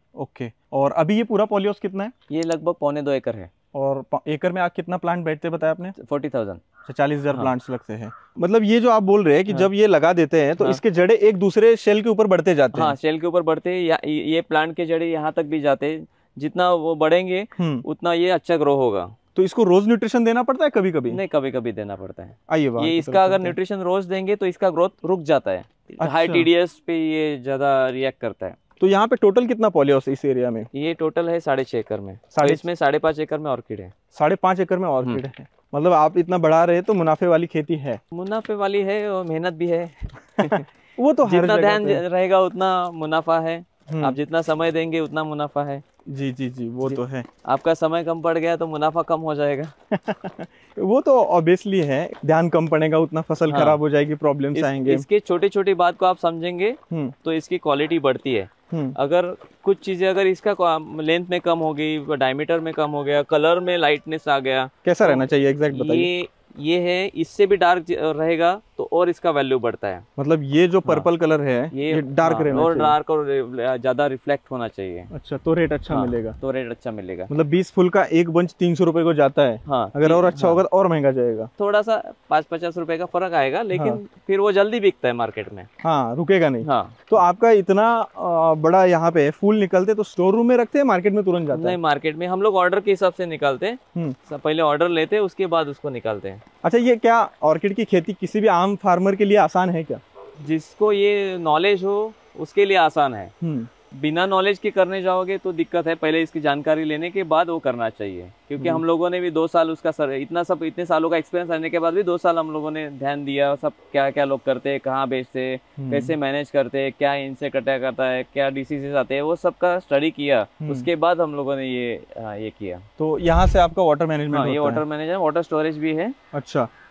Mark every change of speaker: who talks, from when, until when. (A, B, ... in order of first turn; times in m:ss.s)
0:00.2-0:02.1 A
0:02.3-0:03.5 B
0:03.7-0:06.0 A
0:06.0-0:06.6 B
0:06.9-0:13.0 A
0:12.7-0:19.2 B
0:17.6-0:17.8 A
0:19.4-0:21.2 A
0:21.1-0:28.6 B
0:22.5-0:23.6 A
0:26.0-0:26.5 A
0:28.8-0:30.7 A
0:30.7-0:33.9 B
0:32.3-0:32.6 A
0:34.1-0:38.0 A
0:38.1-0:40.7 B
0:40.4-0:42.0 A
0:41.2-0:45.8 B
0:43.9-0:44.2 A
0:46.1-0:47.2 A
0:46.8-0:49.7 B
0:49.9-0:55.0 A
0:53.5-0:53.8 B
0:54.6-1:10.0 B
0:58.7-0:59.0 A
1:04.8-1:06.1 A
1:10.2-1:13.0 A
1:11.7-1:15.1 B
1:15.1-1:16.4 A
1:15.9-1:17.3 B
1:17.3-1:21.5 A
1:19.6-1:20.6 B
1:21.6-1:25.7 B
1:23.7-1:24.0 A
1:25.8-1:31.8 A
1:26.6-1:27.2 B
1:31.5-1:36.4 B
1:36.6-1:40.0 A
1:40.4-1:43.3 B
1:43.4-1:43.7 A
1:43.9-2:02.9 B
1:48.6-1:48.8 A
1:55.8-1:56.2 A
2:00.6-2:00.9 A
2:03.0-2:04.8 A
2:04.3-2:06.2 B
2:06.3-2:06.7 A